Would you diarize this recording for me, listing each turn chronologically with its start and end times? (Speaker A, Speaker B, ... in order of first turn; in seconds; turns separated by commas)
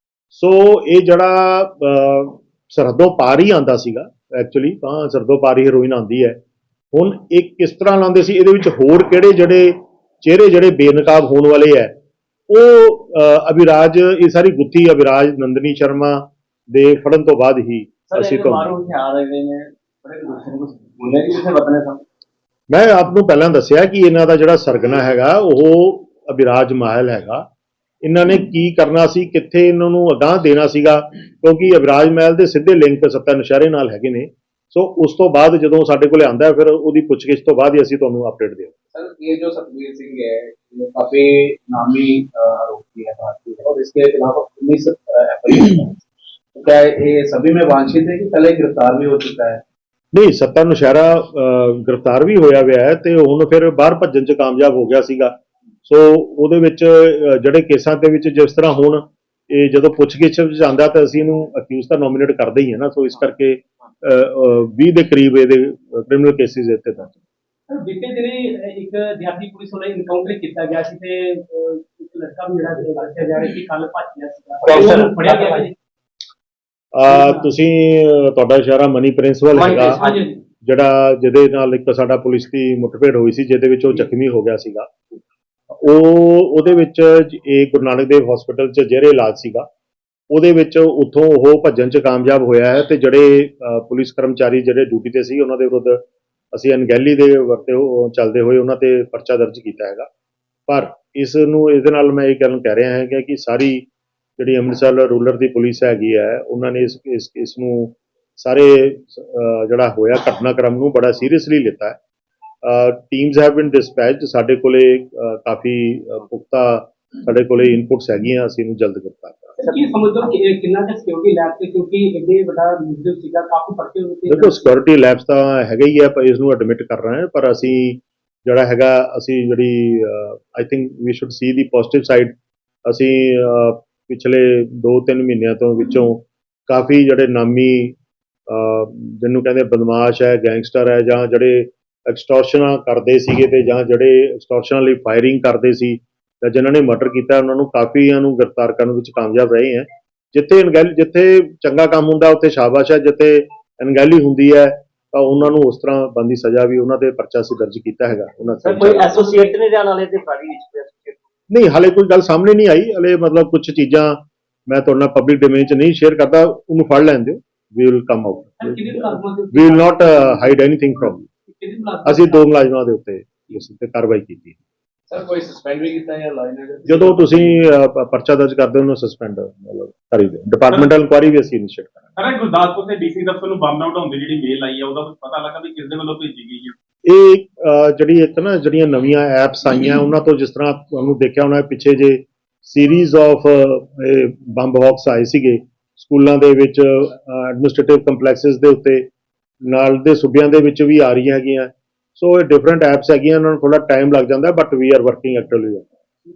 Speaker A: 0.3-6.4, Speaker A: 6.9-11.9, Speaker A: 12.5-18.7, Speaker B: 18.1-22.0, Speaker A: 22.7-27.4, Speaker A: 28.0-38.7, Speaker C: 38.9-46.0, Speaker C: 46.5-49.6, Speaker A: 50.1-55.3, Speaker A: 55.8-67.2, Speaker D: 67.7-75.7, Speaker B: 74.6-75.5, Speaker A: 76.9-80.0, Speaker D: 77.1-77.5, Speaker B: 79.5-80.2, Speaker D: 80.0-80.4, Speaker A: 80.6-84.9, Speaker A: 85.7-89.7, Speaker A: 90.3-96.0, Speaker A: 96.5-100.1, Speaker A: 100.7-103.9, Speaker A: 104.4-112.0, Speaker A: 112.6-119.6, Speaker D: 119.6-124.6, Speaker A: 124.3-132.3, Speaker A: 132.9-137.9, Speaker A: 138.5-159.2, Speaker B: 158.6-161.2, Speaker A: 161.5-171.3, Speaker D: 168.6-170.6, Speaker D: 171.5-172.5, Speaker A: 172.0-174.6, Speaker C: 175.1-177.5, Speaker A: 176.9-182.1, Speaker E: 182.2-186.7, Speaker A: 187.1-199.1, Speaker A: 199.7-205.9